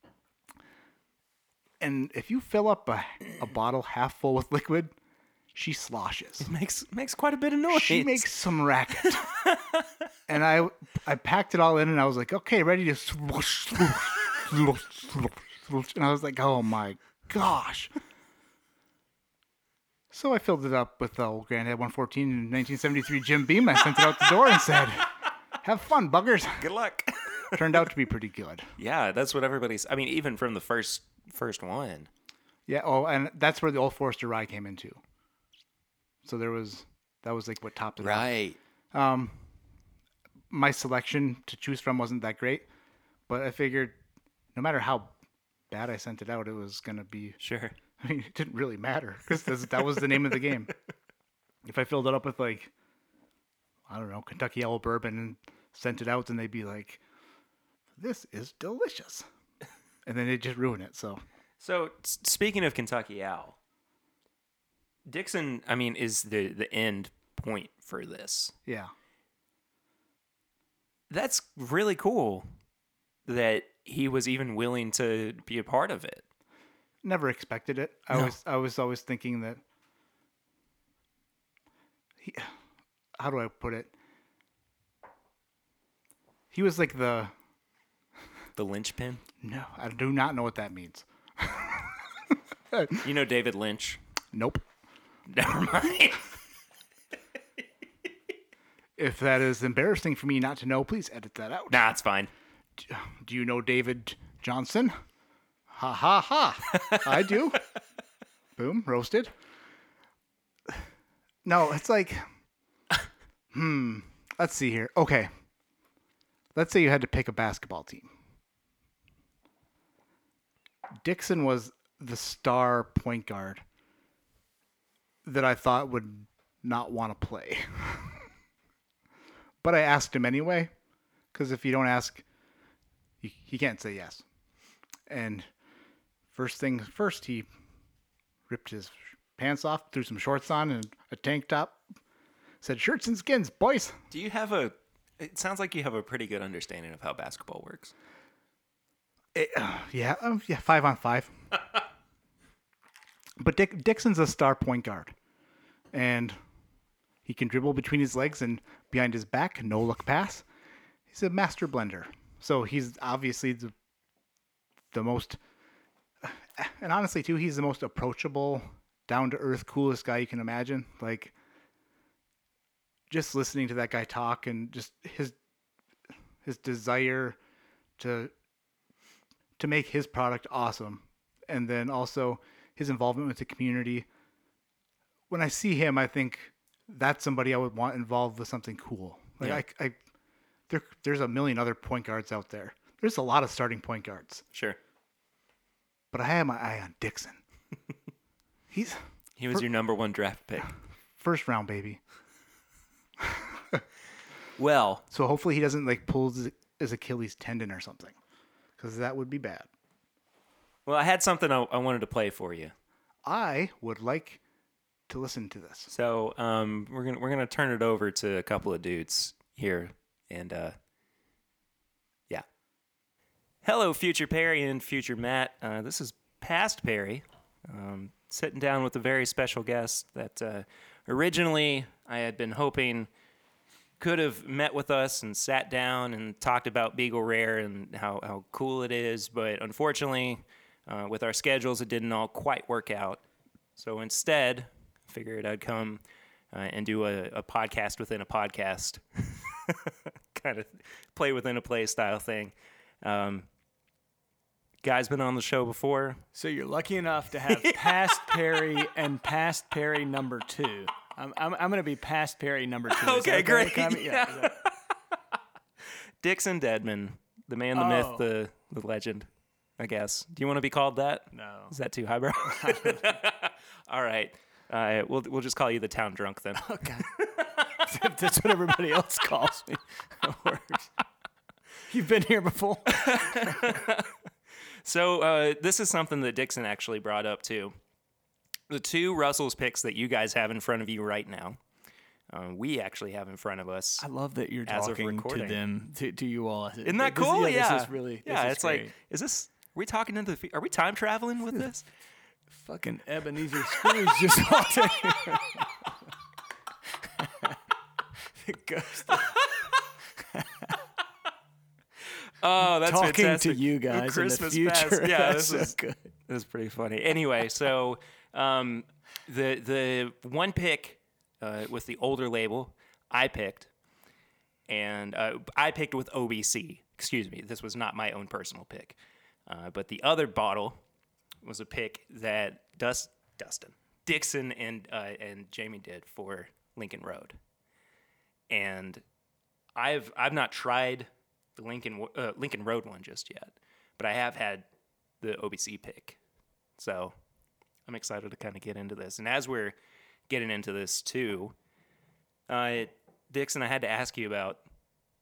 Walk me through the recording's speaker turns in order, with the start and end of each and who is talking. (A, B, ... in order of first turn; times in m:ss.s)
0:01.8-0:04.9 A
0:05.6-0:06.5 A
0:06.4-0:08.3 B
0:07.7-0:09.3 A
0:09.0-0:09.9 B
0:10.3-0:17.9 A
0:20.1-0:26.7 A
0:26.6-0:27.8 B
0:27.5-0:28.7 A
0:28.8-0:32.1 B
0:32.7-0:35.0 A
0:36.2-0:38.3 A
0:38.0-0:38.6 B
0:38.9-0:39.5 A
0:40.5-0:42.7 A
0:43.3-0:44.0 A
0:44.6-0:45.1 A
0:45.7-0:47.4 A
0:47.4-0:47.8 B
0:48.0-0:50.7 A
0:51.6-0:52.7 A
0:53.9-0:57.0 A
0:58.0-0:59.3 A
1:00.0-1:01.2 A
1:01.6-1:03.6 B
1:05.1-1:08.5 B
1:08.7-1:08.9 A
1:11.1-1:12.5 B
1:13.3-1:16.2 B
1:17.0-1:19.6 A
1:22.2-1:22.5 A
1:23.2-1:23.9 A
1:26.5-1:27.3 A
1:28.6-1:29.2 B
1:29.4-1:32.1 A
1:32.7-1:33.0 A
1:33.0-1:34.0 B
1:34.3-1:34.6 A
1:35.3-1:36.3 B
1:39.0-1:41.9 A
1:41.7-1:42.3 B
1:42.8-1:45.0 A
1:45.7-1:47.6 A
1:46.7-1:47.1 B
1:48.6-1:49.3 A
1:51.4-1:52.3 A
1:53.5-1:55.3 A
1:56.6-1:58.1 A
2:01.0-2:03.6 A
2:05.2-2:08.2 A
2:09.6-2:10.7 A
2:11.3-2:12.2 A
2:13.2-2:14.2 A
2:15.1-2:15.5 A
2:16.3-2:17.5 A
2:18.5-2:21.8 A
2:22.6-2:24.0 A
2:24.1-2:27.9 B
2:29.4-2:31.3 A
2:33.4-2:35.1 A
2:35.9-2:36.4 A
2:37.2-2:40.4 A
2:41.1-2:43.7 A
2:44.9-2:45.4 A
2:46.2-2:51.3 A
2:53.1-2:55.4 A
2:56.4-2:57.4 A
2:58.0-2:58.3 A
2:59.6-3:04.1 A
3:05.3-3:10.0 A
3:10.7-3:14.4 A
3:14.5-3:14.8 B
3:16.1-3:17.4 A
3:18.7-3:19.7 A
3:19.4-3:20.7 B
3:21.2-3:22.0 A
3:23.2-3:23.8 A
3:24.6-3:25.0 B
3:25.1-3:28.2 A
3:28.8-3:29.7 A
3:30.9-3:32.7 B
3:33.3-3:34.4 A
3:35.1-3:35.9 A
3:35.9-3:40.8 B
3:43.6-3:53.1 B
3:54.0-4:03.2 B
4:03.8-4:13.5 B
4:14.8-4:16.2 B
4:16.4-4:24.6 C
4:17.5-4:18.8 B
4:22.9-4:24.8 B
4:26.2-4:37.4 B
4:27.8-4:28.3 C
4:31.3-4:31.8 C
4:32.4-4:33.1 C
4:36.6-4:40.9 C
4:41.9-4:43.6 C
4:42.9-4:44.1 B
4:44.8-4:47.8 B
4:48.7-4:51.6 B
4:52.3-4:54.1 B
4:54.0-4:58.9 C
4:54.7-4:55.6 B
4:56.8-5:01.9 B
5:02.5-5:05.7 C
5:07.0-5:07.6 C
5:08.3-5:10.8 C
5:12.4-5:15.8 B
5:12.8-5:16.1 C
5:16.3-5:23.7 B
5:24.7-5:30.8 B
5:31.4-5:37.4 B
5:38.5-5:39.0 B
5:39.8-5:44.7 B
5:45.2-5:46.2 B
5:46.8-5:47.1 B
5:47.9-5:49.8 B
5:50.3-5:51.6 B
5:52.5-5:54.6 B